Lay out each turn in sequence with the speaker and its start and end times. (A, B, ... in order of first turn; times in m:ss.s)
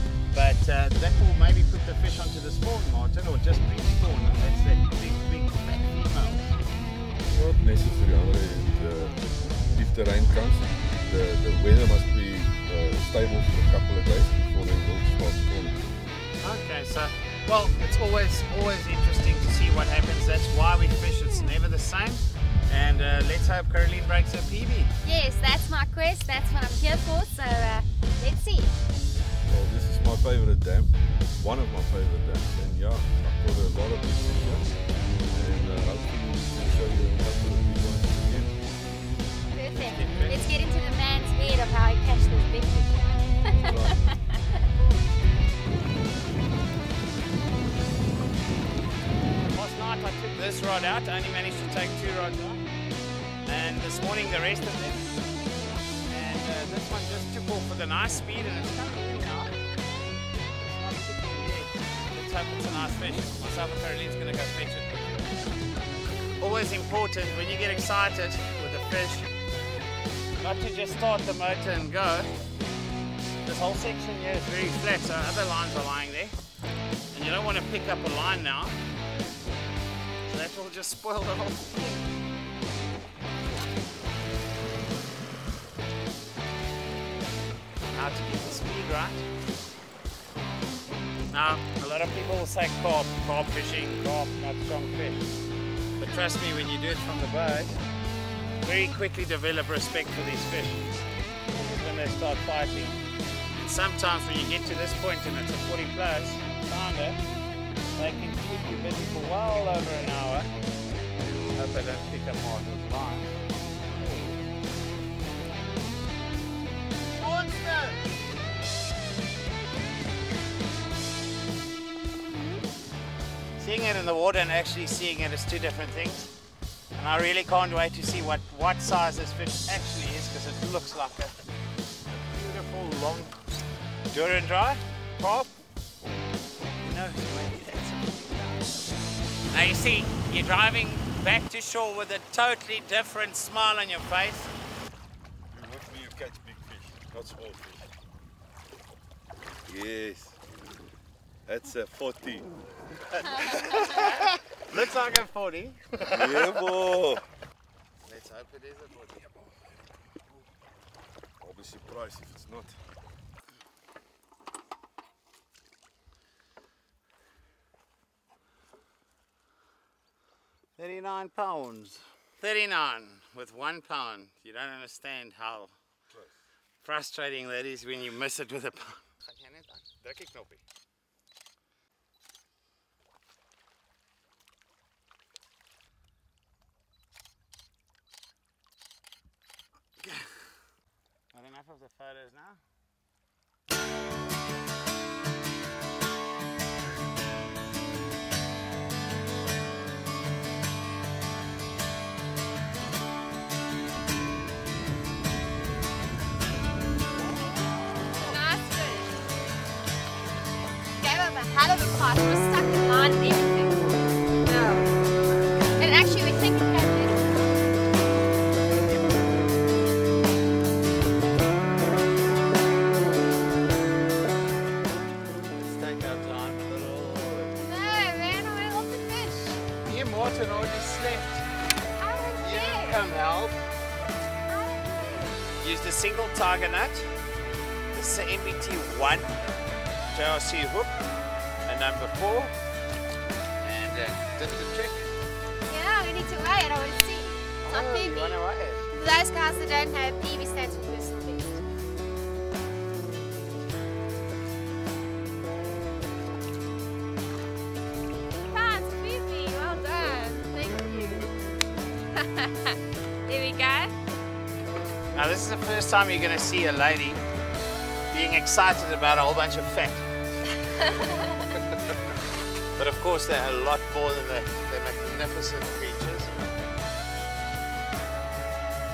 0:00.3-0:06.6 A
0:07.3-0:15.8 B
0:16.4-0:24.9 A
0:25.0-0:28.7 C
0:29.5-0:34.7 B
0:35.3-0:38.5 B
0:39.5-0:44.1 C
0:39.7-0:40.5 A
0:43.6-0:44.0 B
0:49.4-0:52.6 A
0:53.4-0:55.2 A
0:56.1-0:59.5 A
1:00.6-1:05.3 A
1:06.4-1:09.3 A
1:10.4-1:12.3 A
1:13.4-1:16.3 A
1:17.1-1:18.8 A
1:20.2-1:21.9 A
1:27.9-1:29.2 A
1:31.3-1:35.3 A
1:36.0-1:37.8 A
1:38.6-1:43.0 A
1:43.5-1:47.2 A
1:48.0-1:50.5 A
1:51.3-1:53.3 A
1:57.1-1:58.0 A
2:03.6-2:06.3 A
2:06.9-2:11.4 A
2:12.1-2:13.3 A
2:14.1-2:15.5 A
2:16.8-2:18.7 A
2:19.5-2:24.5 A
2:25.5-2:27.9 B
2:29.6-2:30.4 B
2:31.4-2:32.5 B
2:33.2-2:36.7 A
2:33.4-2:33.9 B
2:36.1-2:37.2 B
2:38.0-2:39.3 A
2:41.4-2:42.8 B
2:50.8-2:55.7 A
2:56.8-3:00.6 A
3:10.0-3:10.5 A
3:11.3-3:12.6 A
3:28.1-3:29.2 C
3:31.0-3:33.8 C
3:34.4-3:34.9 C
3:35.8-3:37.5 C
3:45.6-3:47.6 A
3:47.6-3:49.6 C
3:49.8-3:51.4 A
3:52.0-3:53.0 C
3:52.4-3:53.6 A
3:54.5-3:55.4 C
3:55.6-3:57.1 A
3:57.9-3:59.3 A
4:00.1-4:00.9 A
4:01.6-4:02.5 A
4:03.6-4:05.1 A
4:05.7-4:08.4 C
4:07.6-4:08.8 A
4:08.9-4:11.6 C
4:18.5-4:21.3 C
4:22.1-4:23.9 C
4:25.1-4:27.2 A
4:28.1-4:30.0 A
4:31.0-4:31.3 C
4:32.7-4:36.3 A